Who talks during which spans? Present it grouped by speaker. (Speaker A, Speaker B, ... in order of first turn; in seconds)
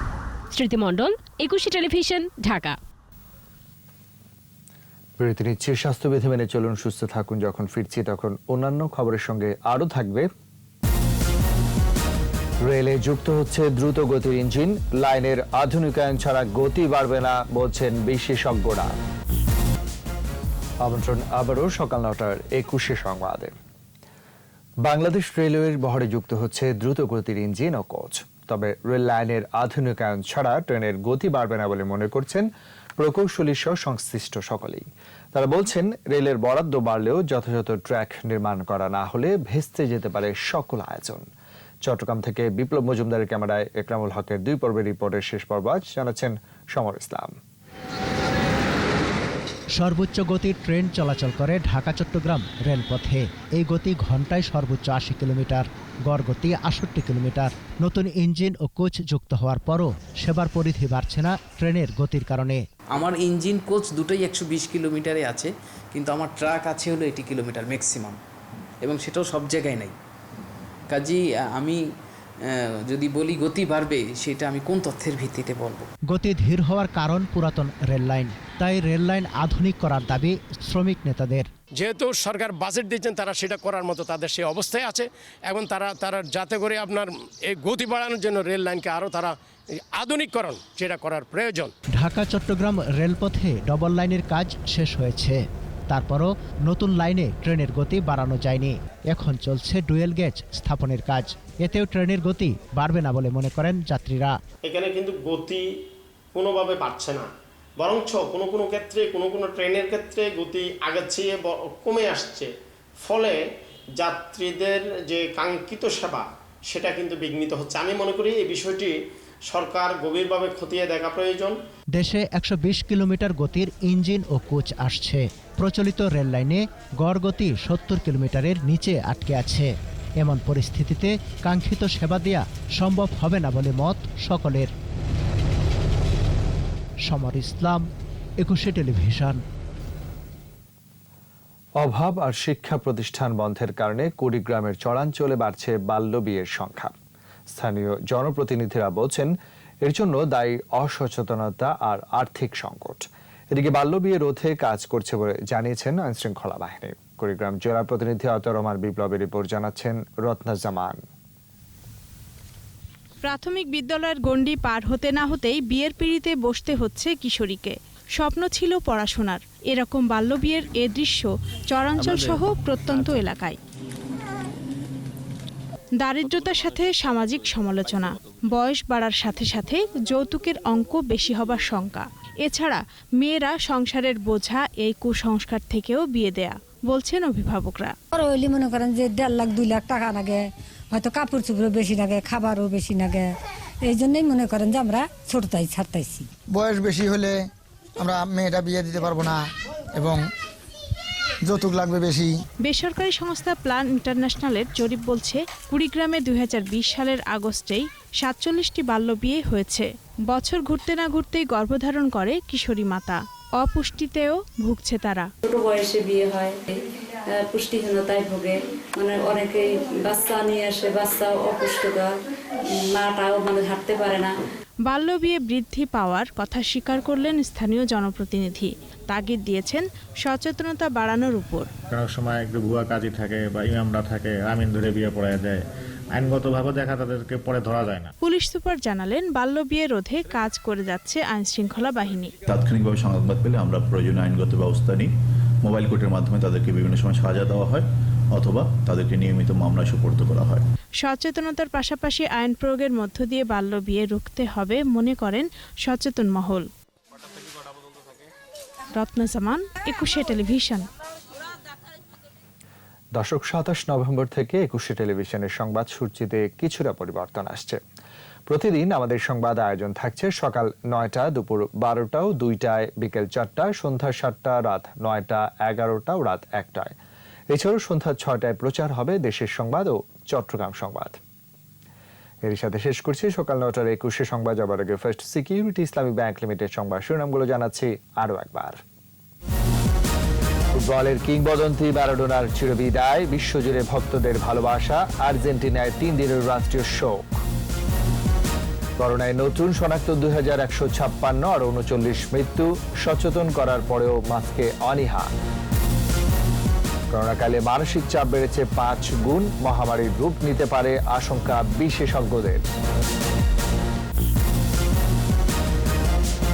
Speaker A: 0.5-2.8
Speaker B: 5.2-10.3, 12.6-19.0, 20.8-23.5, 24.8-32.5, 33.0-41.2, 41.8-47.3, 141.8-146.9, 147.5-149.3, 149.8-161.0, 263.1-267.8, 268.5-276.9, 277.5-281.2, 282.4-288.8, 290.7-297.4, 299.0-305.3, 307.1-312.7
Speaker C: 49.8-62.6, 76.1-81.5, 91.9-104.3, 121.9-134.7, 137.1-137.8, 138.4-139.4
Speaker D: 62.9-68.2, 68.8-69.9, 70.9-71.8, 72.5-75.9
Speaker E: 81.8-89.3, 90.0-91.7, 104.6-105.7, 106.3-107.3, 107.8-112.5, 113.0-113.4, 114.0-118.9, 119.5-121.6
Speaker F: 163.2-173.6, 176.0-187.9, 202.6-215.3, 224.9-231.7, 238.2-242.3, 251.0-256.6, 258.9-260.9
Speaker G: 188.1-193.3, 193.8-196.3
Speaker H: 196.5-197.4, 198.0-199.4, 199.9-200.2, 201.4-202.3
Speaker I: 215.4-222.1, 222.7-224.3
Speaker J: 231.9-235.6, 236.1-238.1
Speaker K: 242.5-245.1, 245.6-250.7